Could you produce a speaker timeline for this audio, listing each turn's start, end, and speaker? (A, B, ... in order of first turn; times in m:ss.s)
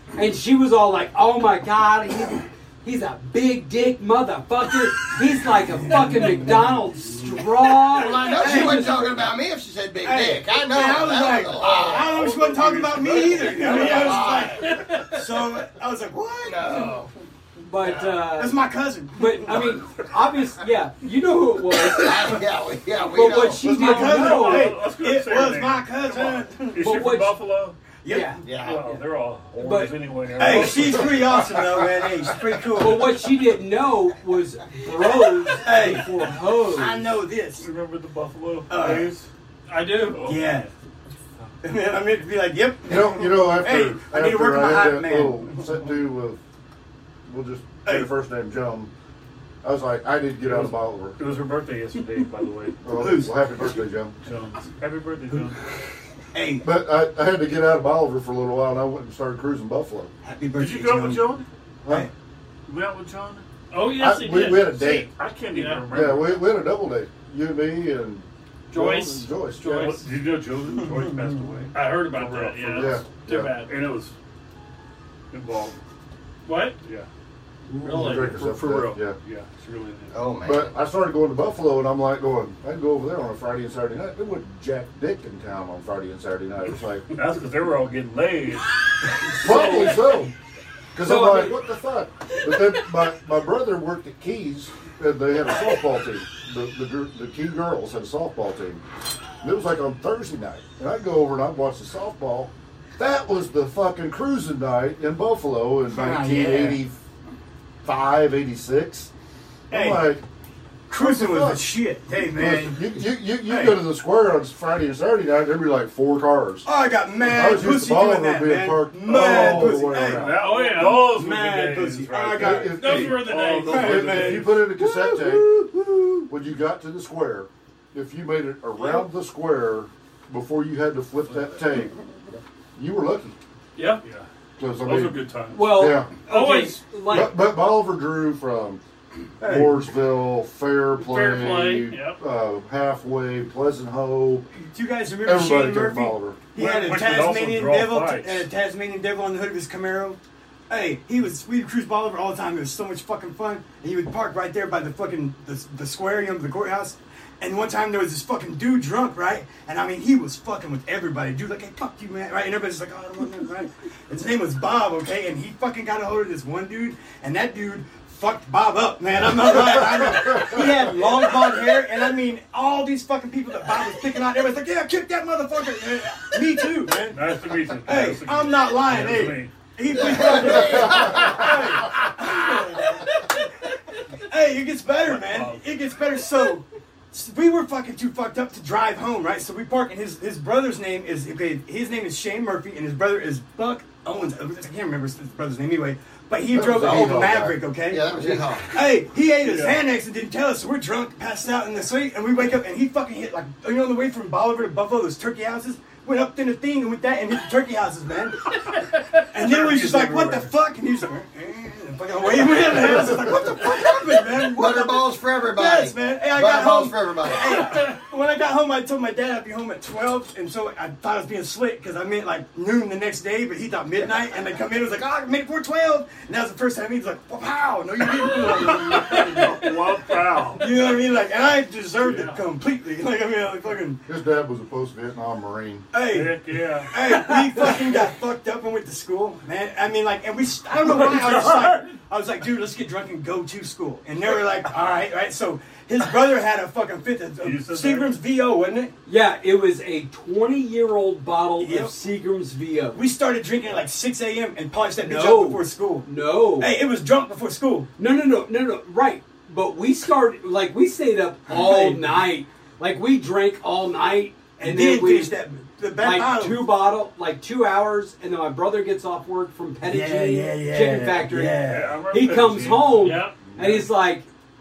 0:00.2-0:09.2 A
0:05.8-0:06.6 B
0:07.9-0:12.2 C
0:08.2-0:08.8 B
0:10.0-0:17.0 B
0:11.9-0:14.5 D
0:13.6-0:14.8 C
0:14.6-0:15.2 E
0:16.4-0:17.1 C
0:17.6-0:18.6 A
0:17.8-0:19.8 B
0:19.1-0:22.4 A
0:21.9-0:23.7 C
0:23.0-0:24.7 A
0:23.6-0:27.0 B
0:23.8-0:27.8 D
0:26.8-0:27.4 A
0:28.0-0:28.5 B
0:28.1-0:28.7 A
0:28.4-0:28.9 C
0:28.6-0:31.5 D
0:29.5-0:30.0 A
0:30.4-0:33.2 B
0:32.8-0:37.1 A
0:35.5-0:37.7 B
0:37.6-0:39.3 D
0:38.7-0:39.1 B
0:39.7-0:40.4 E
0:39.9-0:40.5 D
0:40.1-0:40.7 B
0:41.6-0:45.9 B
0:42.9-0:46.4 F
0:47.3-0:48.9 F
0:49.6-0:51.2 F
0:50.4-0:52.8 D
0:52.8-0:54.2 F
0:53.0-0:53.8 B
0:54.2-0:55.7 D
0:56.3-0:56.7 B
0:56.6-1:00.1 F
1:00.2-1:01.4 B
1:00.5-1:01.5 D
1:02.7-1:03.4 D
1:03.7-1:05.0 E
1:03.9-1:05.1 F
1:04.8-1:06.5 D
1:05.5-1:05.8 E
1:05.9-1:10.0 F
1:08.7-1:10.1 E
1:09.6-1:13.1 D
1:10.9-1:11.3 B
1:11.7-1:13.8 E
1:12.7-1:13.5 F
1:13.6-1:14.1 D
1:15.3-1:15.8 D
1:16.4-1:16.8 E
1:16.8-1:17.1 D
1:17.8-1:19.2 F
1:17.8-1:18.9 E
1:17.9-1:20.2 D
1:20.1-1:20.8 C
1:20.4-1:27.1 F
1:27.1-1:29.6 D
1:29.4-1:30.3 F
1:29.5-1:29.9 E
1:30.9-1:38.8 F
1:31.0-1:31.6 A
1:39.4-1:47.0 F
1:45.9-1:46.8 B
1:47.8-1:49.1 F
1:49.7-1:50.2 B
1:49.7-1:50.2 F
1:50.9-1:52.8 B
1:51.0-1:56.7 F
1:53.4-1:53.8 B
1:56.6-2:06.3 B
1:57.2-2:00.4 F
1:59.0-2:04.5 D
2:00.3-2:01.1 E
2:02.4-2:05.6 F
2:02.8-2:03.9 E
2:06.3-2:12.0 F
2:11.3-2:11.6 D
2:12.8-2:13.4 F
2:13.8-2:14.0 E
2:14.6-2:16.1 F
2:14.8-2:16.0 D
2:15.5-2:17.4 A
2:16.3-2:16.8 E
2:17.1-2:18.8 F
2:19.4-2:19.9 B
2:19.4-2:24.5 F
2:21.0-2:22.2 E
2:24.7-2:30.2 B
2:25.2-2:26.4 F
2:26.6-2:28.5 D
2:30.7-2:57.3 B
2:56.9-2:59.5 D
2:57.8-3:03.5 B
2:59.9-3:01.5 C
3:00.5-3:01.3 F
3:04.3-3:28.5 B
3:05.0-3:05.7 D
3:16.5-3:17.6 F
3:16.7-3:17.3 C
3:17.9-3:18.7 C
3:19.4-3:19.8 D
3:29.3-3:49.8 B
3:29.3-3:30.5 D
3:34.5-3:37.7 C
3:48.5-3:50.7 D
3:50.6-3:54.0 B
3:52.0-3:52.5 D
3:54.1-3:55.9 F
3:55.9-4:08.9 B
3:56.0-3:57.0 D
4:00.9-4:01.7 D
4:07.4-4:08.2 D
4:09.1-4:13.0 A
4:11.6-4:11.9 B
4:12.9-4:17.9 B
4:15.0-4:16.8 A
4:18.0-4:25.4 A
4:21.5-4:22.2 B
4:24.6-4:26.7 B
4:26.0-4:31.6 A
4:29.8-4:32.0 B
4:31.7-4:33.2 D
4:32.1-4:34.3 A
4:33.0-4:33.4 E